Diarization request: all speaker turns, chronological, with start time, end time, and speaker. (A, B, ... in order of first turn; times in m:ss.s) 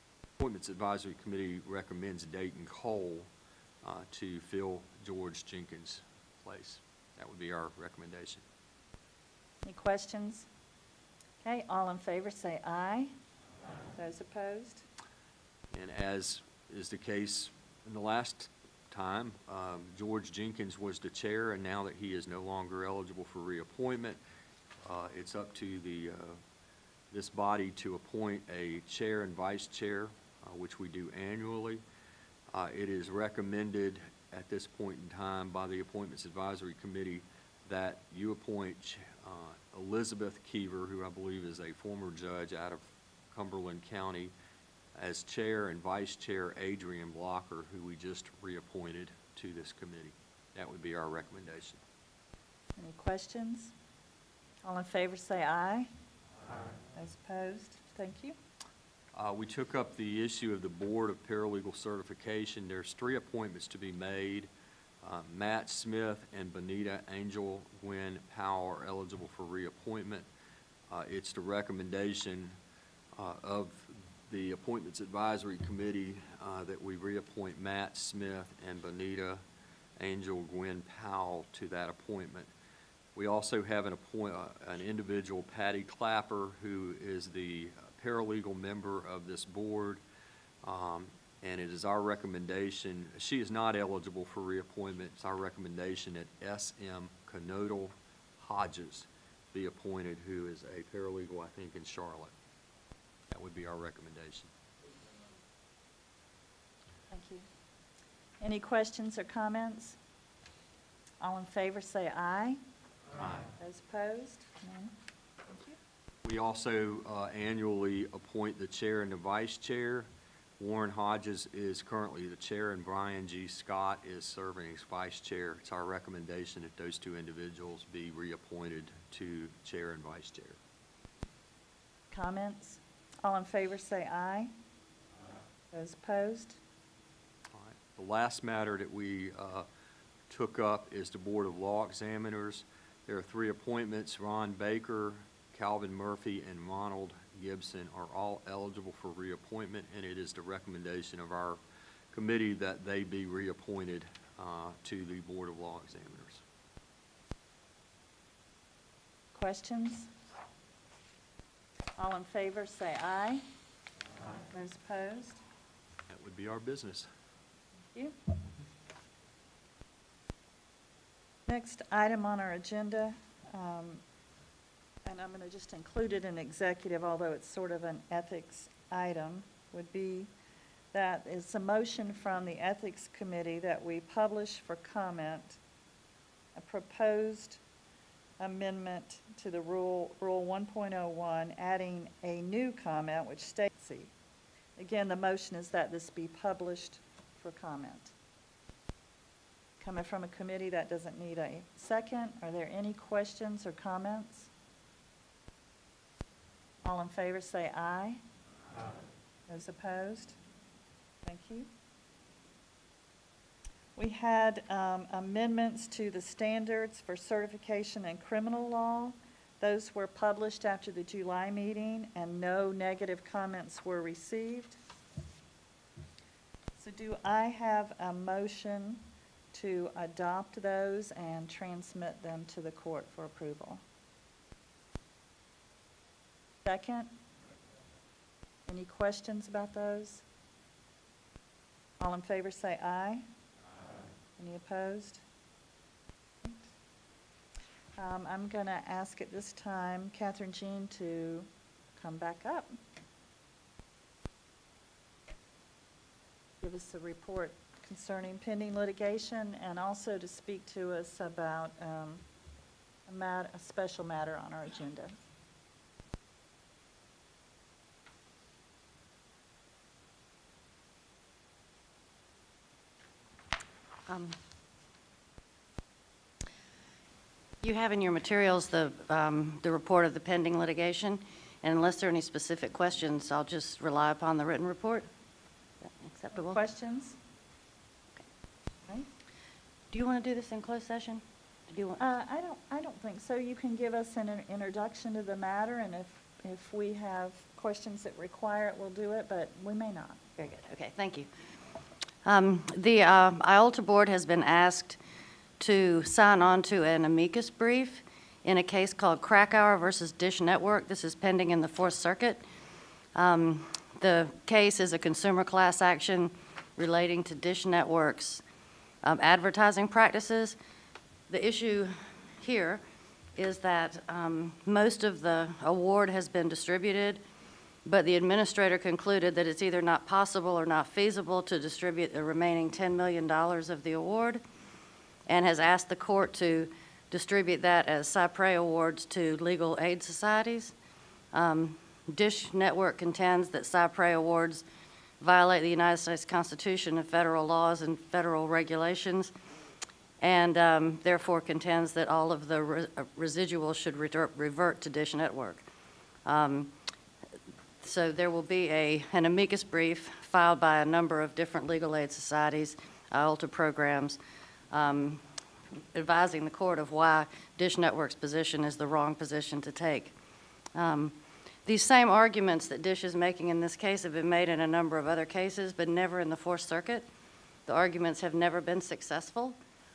0:00.4-0:03.3 A
0:03.8-0:08.4 A
0:09.6-0:10.5 B
0:11.4-0:13.1 B
0:13.9-0:14.8 B
0:15.7-0:24.2 A
0:24.8-0:26.4 A
0:27.1-0:31.8 A
0:32.5-0:44.3 A
0:44.9-0:51.8 A
0:52.8-0:53.7 B
0:54.6-0:55.9 B
0:56.9-0:58.4 B
0:59.1-1:04.5 A
1:05.0-1:10.3 A
1:10.9-1:12.5 A
1:13.2-1:19.4 A
1:20.0-1:22.5 A
1:23.1-1:30.0 A
1:30.6-1:42.3 A
1:43.3-1:44.5 A
1:47.1-1:47.4 B
1:48.4-1:50.0 B
1:51.2-1:52.6 B
1:53.2-1:53.4 A
1:53.6-1:54.9 B
1:55.4-1:55.8 B
1:56.2-2:00.1 A
2:00.6-2:10.6 A
2:12.1-2:14.5 B
2:15.7-2:16.6 B
2:17.5-2:19.7 A
2:20.3-2:31.6 A
2:32.1-2:36.4 A
2:39.3-2:40.1 B
2:42.0-2:43.4 B
2:44.5-2:45.4 B
2:46.1-2:47.1 A
2:51.5-2:54.0 B
2:55.0-3:00.3 B
3:00.9-3:05.6 B
3:06.5-3:07.6 B
3:08.4-3:14.1 B
3:14.8-3:18.1 B
3:19.8-3:24.5 B
3:26.8-3:28.2 B
3:29.5-3:30.4 B
3:31.2-3:31.7 B
3:34.0-3:44.8 B
3:46.8-3:53.8 B
3:56.6-3:57.1 B
3:58.7-4:00.2 B
4:02.0-4:03.2 B
4:04.4-4:05.2 B
4:08.0-4:12.8 B
4:16.6-4:22.2 B
4:23.1-4:25.2 B
4:34.1-4:34.4 C
4:37.6-4:45.1 C
4:46.0-4:46.6 C
4:46.4-4:47.2 B
4:49.9-4:52.0 C
4:52.0-5:00.2 B
5:00.4-5:01.3 C
5:02.2-5:05.0 C
5:05.6-5:12.4 C
5:13.1-5:18.4 C
5:19.0-5:20.6 C
5:21.3-5:22.8 C
5:23.4-5:27.2 C
5:27.8-5:34.4 C
5:35.3-5:40.7 C
5:41.3-5:44.6 C
5:45.2-5:49.3 C
5:50.2-5:55.6 C
5:56.2-5:56.7 C
5:57.8-6:04.2 C
6:04.7-6:05.2 C
6:05.9-6:10.1 C
6:10.7-6:17.1 C
6:17.6-6:19.6 C